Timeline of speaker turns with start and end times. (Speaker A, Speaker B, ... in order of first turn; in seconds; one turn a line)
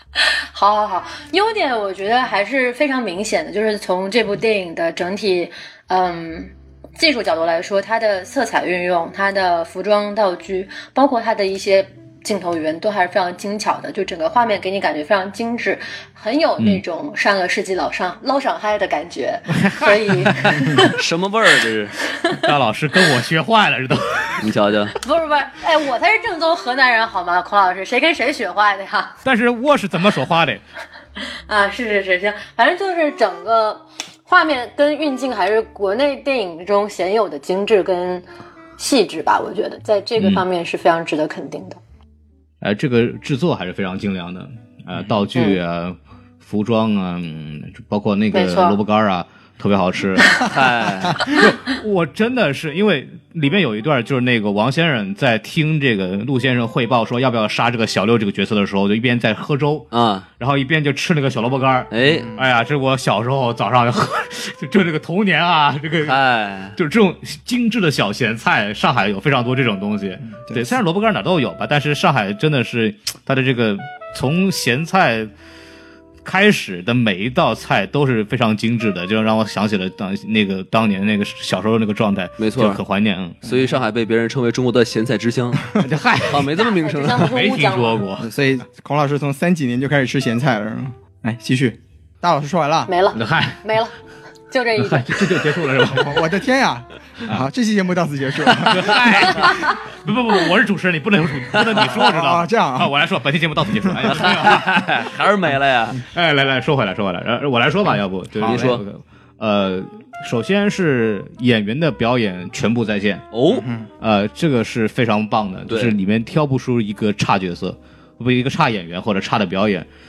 Speaker A: 0.5-21.0
Speaker B: 19.5-20.6
Speaker C: 20.5-21.9
Speaker A: 22.2-22.5
Speaker B: 22.3-24.5
Speaker C: 24.4-24.9
Speaker A: 24.9-29.2
Speaker B: 29.2-30.6
Speaker A: 31.5-38.2
Speaker A: 38.8-41.8
Speaker B: 42.6-50.5
Speaker A: 48.3-48.8
Speaker C: 50.4-51.3
Speaker B: 51.1-66.2
Speaker C: 59.9-60.2
Speaker C: 61.9-62.3
Speaker D: 62.1-62.4
Speaker C: 66.0-66.8
Speaker B: 66.8-75.3
Speaker D: 70.3-70.8
Speaker B: 76.2-83.4
Speaker C: 82.4-82.8
Speaker C: 83.4-87.3
Speaker B: 85.7-86.5
Speaker A: 86.5-88.0
Speaker B: 87.1-88.3
Speaker D: 88.2-92.9
Speaker A: 92.9-93.9
Speaker B: 93.1-93.6
Speaker A: 94.5-95.3
Speaker B: 94.8-96.2
Speaker D: 95.8-99.2
Speaker B: 98.6-105.1
Speaker D: 101.8-102.9
Speaker C: 104.1-106.0
Speaker B: 106.0-113.3
Speaker D: 108.4-108.8
Speaker C: 108.4-108.8
Speaker C: 113.3-113.7
Speaker D: 113.6-113.9
Speaker B: 114.0-119.9
Speaker C: 115.7-115.9